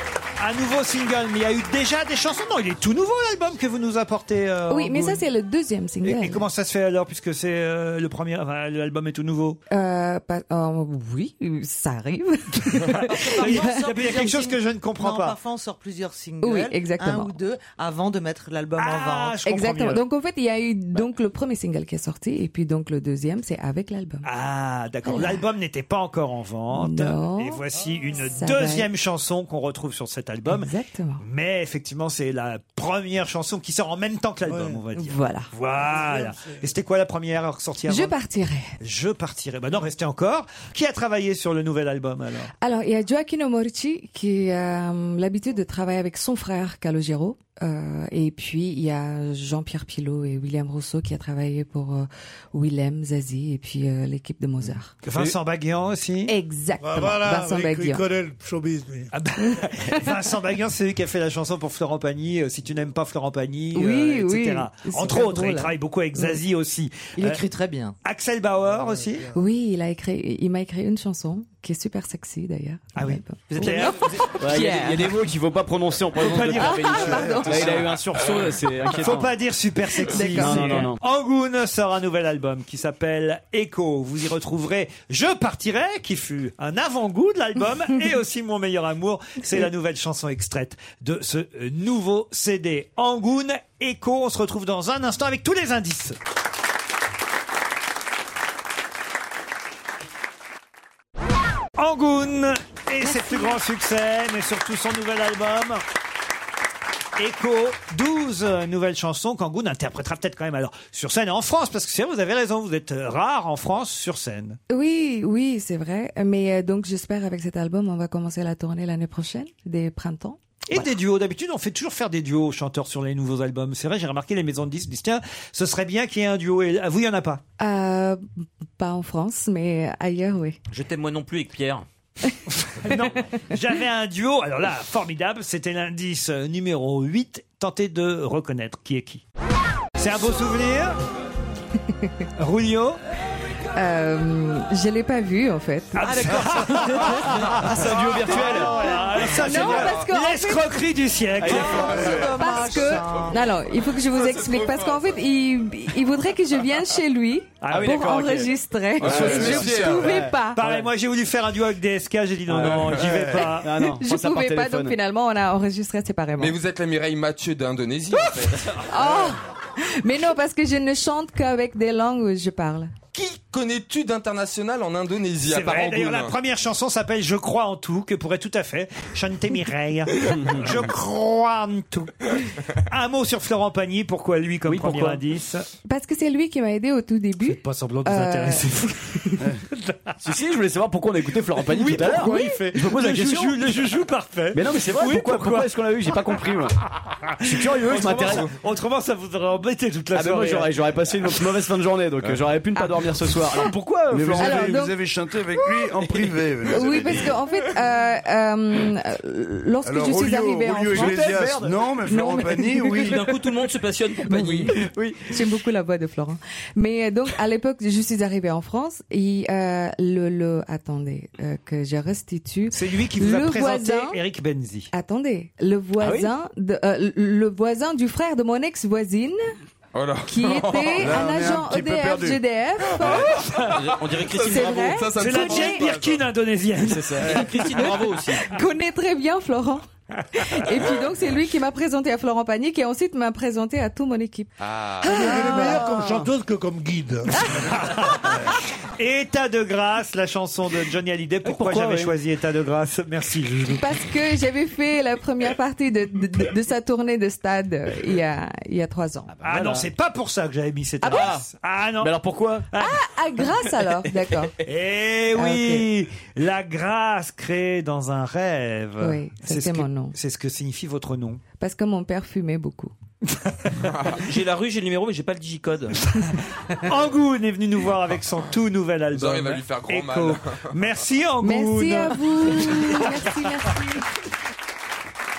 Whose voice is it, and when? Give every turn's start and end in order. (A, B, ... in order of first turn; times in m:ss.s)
0:00.4-0:05.2 A
0:04.7-0:06.4 B
0:06.0-0:09.6 A
0:09.7-0:13.9 B
0:12.7-0:15.4 A
0:13.2-0:19.4 C
0:16.4-0:17.3 B
0:18.8-0:20.0 A
0:19.4-0:24.3 B
0:24.2-0:38.2 A
0:25.0-0:25.4 B
0:26.7-0:27.6 B
0:28.2-0:28.9 B
0:30.5-0:31.2 B
0:34.4-0:34.8 D
0:35.0-0:35.5 B
0:35.8-0:36.7 D
0:37.9-0:38.8 B
0:38.8-0:42.5 A
0:42.6-0:54.9 B
0:55.0-0:56.4 A
0:56.3-0:58.0 B
0:56.8-0:59.1 D
0:59.1-1:07.4 A
0:59.4-1:00.2 B
1:03.7-1:06.4 B
1:07.2-1:08.0 C
1:08.0-1:09.3 A
1:08.8-1:09.1 D
1:09.3-1:15.0 B
1:12.9-1:15.1 A
1:14.4-1:19.4 E
1:16.1-1:36.2 A
1:16.4-1:17.7 B
1:17.1-1:17.4 F
1:20.0-1:20.9 B
1:20.1-1:21.0 E
1:41.8-1:45.8 A
1:43.0-1:43.6 B
1:47.2-1:54.6 A
1:54.7-2:00.9 B
2:00.7-2:07.4 A
2:07.6-2:10.6 B
2:10.7-2:11.8 G
2:12.6-2:19.2 A
2:20.0-2:21.0 A
2:22.4-2:23.0 A
2:23.7-2:26.2 B
2:26.0-2:32.2 A
2:26.1-2:27.0 C
2:27.0-2:29.9 E
2:28.5-2:29.0 C
2:29.4-2:30.7 B
2:31.4-2:32.3 E
2:31.4-2:33.4 C
2:31.9-2:32.3 F
2:32.3-2:40.6 B
2:34.0-2:35.1 H
2:37.6-2:38.3 A
2:37.7-2:38.5 E
2:39.0-2:40.2 H
2:39.0-2:40.9 E
2:40.5-2:43.9 A
2:42.5-2:45.0 E
2:43.0-2:43.4 F
2:43.8-2:46.6 B
2:46.4-2:48.8 H
2:48.7-2:52.9 B
2:53.1-2:56.3 H
2:55.5-3:05.7 A
3:00.3-3:00.9 E
3:04.6-3:05.2 E
3:05.8-3:09.5 B
3:07.4-3:09.4 A
3:10.2-3:13.8 E
3:11.6-3:15.7 A
3:12.2-3:12.6 B
3:14.5-3:16.8 E
3:17.1-3:20.7 A
3:17.4-3:18.5 E
3:20.1-3:24.8 E
3:22.7-3:23.7 B
3:24.1-3:27.4 F
3:24.4-3:25.0 B
3:26.7-3:31.4 B
3:29.8-3:33.3 F
3:30.9-3:31.8 E
3:32.0-3:33.3 B
3:32.9-3:34.7 G
3:34.2-3:44.2 B
3:34.4-3:35.3 E
3:42.7-3:44.9 A
3:44.9-3:49.5 B
3:46.0-3:46.3 E
3:49.9-3:51.1 H
3:50.3-3:53.3 B
3:51.0-3:52.4 F
3:53.0-3:56.2 H
3:53.2-3:53.8 A
3:53.8-3:54.7 G
3:54.4-3:55.8 B
3:55.2-3:57.8 A
3:57.1-3:57.9 E
3:57.1-3:58.5 G
3:58.4-4:06.0 B
4:00.3-4:00.9 A
4:04.6-4:05.0 H
4:05.0-4:07.5 D
4:05.4-4:06.3 E
4:07.4-4:13.9 A
4:11.4-4:12.2 E
4:13.8-4:19.3 B
4:19.3-4:19.9 E
4:19.4-4:22.2 A
4:21.0-4:21.4 B
4:21.0-4:21.5 E
4:22.0-4:22.7 E
4:22.7-4:23.1 A
4:22.8-4:24.6 B
4:24.6-4:31.4 A
4:25.4-4:25.9 B
4:29.0-4:30.2 B
4:31.6-4:32.9 B
4:33.3-4:33.9 A
4:33.9-4:34.2 H
4:34.2-4:36.0 G
4:36.7-4:43.5 A
4:39.1-4:40.6 H
4:41.4-4:44.1 B